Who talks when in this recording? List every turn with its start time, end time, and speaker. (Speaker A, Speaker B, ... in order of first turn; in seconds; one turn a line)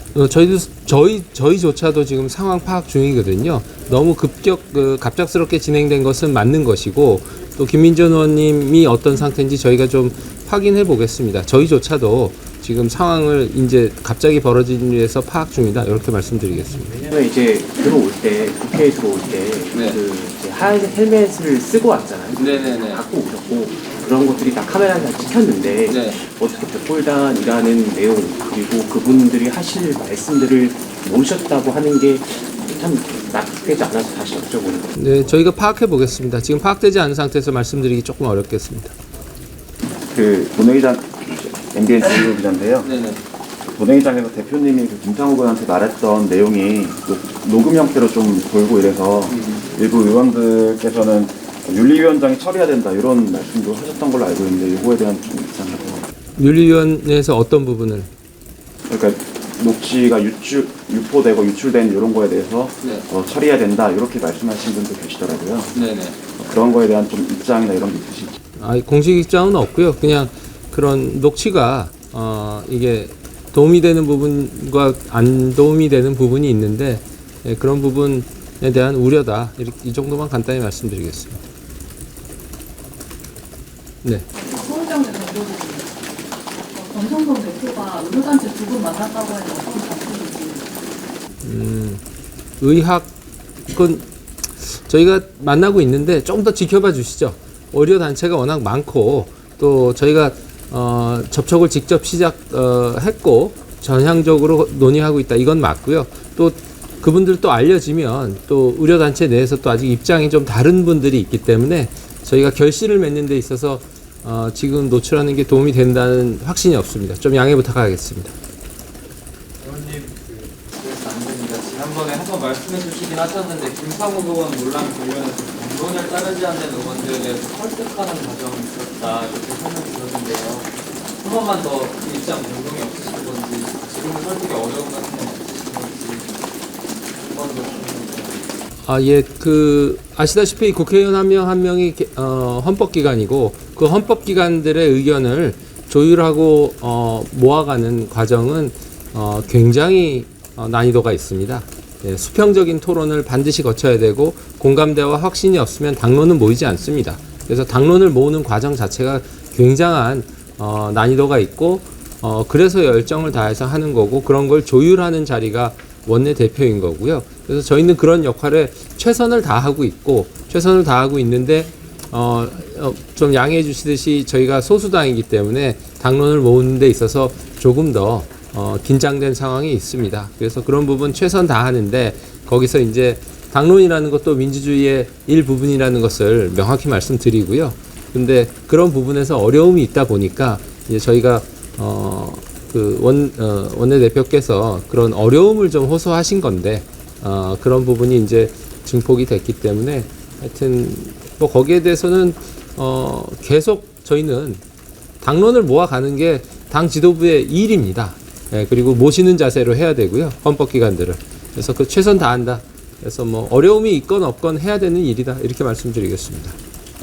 Speaker A: 0.1-17.0
Speaker B: 17.1-34.9
Speaker A: 19.7-20.0
Speaker A: 22.3-23.0
Speaker A: 25.9-26.2
Speaker A: 35.0-38.9
Speaker C: 40.1-42.9
Speaker A: 42.8-43.2
Speaker C: 43.7-56.0
Speaker A: 56.4-58.1
Speaker C: 58.9-65.7
Speaker A: 65.7-66.2
Speaker C: 66.4-68.3
Speaker A: 68.6-81.4
Speaker D: 84.4-85.9
Speaker D: 86.7-90.8
Speaker A: 91.4-92.0
Speaker A: 92.6-93.1
Speaker A: 93.7-94.1
Speaker A: 94.6-118.3
Speaker E: 119.6-136.3
Speaker E: 137.2-138.4
Speaker A: 138.8-204.6
Speaker A: 205.2-216.6